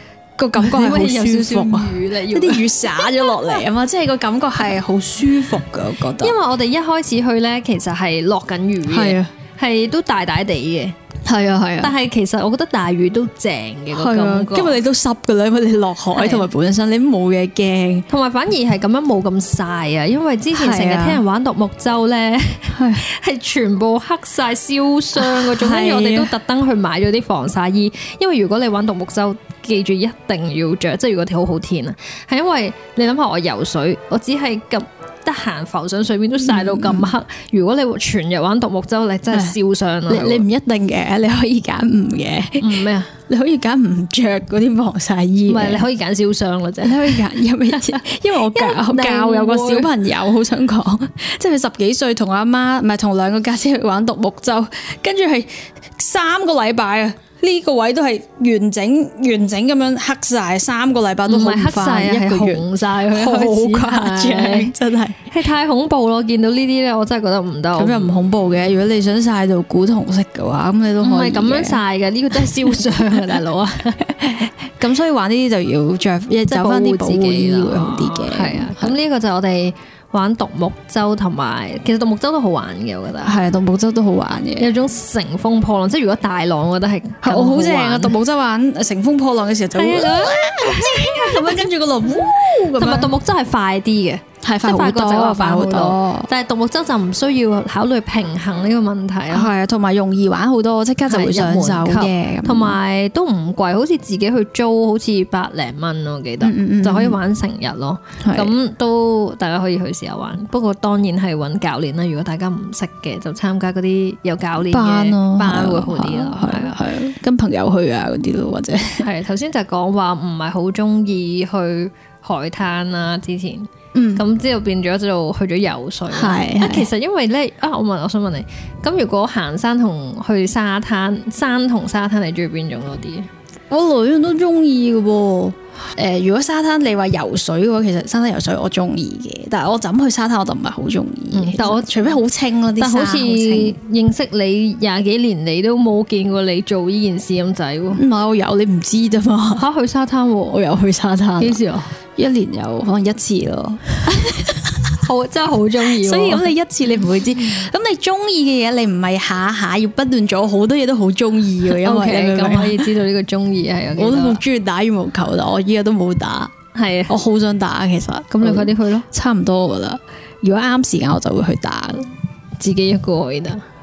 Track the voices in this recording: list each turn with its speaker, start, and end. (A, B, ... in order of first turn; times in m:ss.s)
0:00.4-0:06.4 A
0:00.6-0:03.3 B
0:06.2-0:10.9 B
0:08.9-0:09.3 A
0:11.2-0:11.9 A
0:11.8-0:14.8 B
0:13.9-0:18.0 A
0:16.2-0:16.4 B
0:18.1-0:40.4 B
0:20.5-0:21.2 A
0:22.7-0:23.0 A
0:25.2-0:26.3 A
0:36.4-0:37.1 A
0:39.3-0:45.8 A
0:42.6-0:43.1 B
0:45.5-0:47.2 B
0:46.8-1:05.2 A
0:47.7-0:49.9 B
1:01.3-1:04.7 B
1:05.3-1:08.2 B
1:07.8-1:11.8 A
1:11.0-1:14.1 B
1:12.7-1:13.2 A
1:14.2-1:19.0 A
1:16.5-1:23.4 B
1:23.2-1:24.7 A
1:24.6-1:28.2 B
1:27.2-1:33.1 A
1:29.8-1:39.5 B
1:34.4-1:36.3 A
1:39.3-1:42.8 A
1:41.0-1:56.8 B
1:46.4-1:47.2 A
1:48.2-1:48.5 A
1:54.7-1:59.0 A
1:59.0-2:13.3 B
2:03.9-2:04.2 A
2:06.1-2:06.9 A
2:13.7-2:23.8 A
2:21.3-2:21.9 B
2:22.8-2:28.0 B
2:27.9-2:29.6 A
2:29.5-2:30.6 B
2:30.5-2:31.6 A
2:31.4-2:31.9 B
2:32.2-2:34.9 A
2:35.0-2:36.5 B
2:36.0-2:42.9 A
2:41.7-2:44.4 B
2:44.0-2:46.5 A
2:46.7-2:47.2 B
2:47.1-2:52.1 A
2:48.4-2:49.0 B
2:52.6-2:53.6 B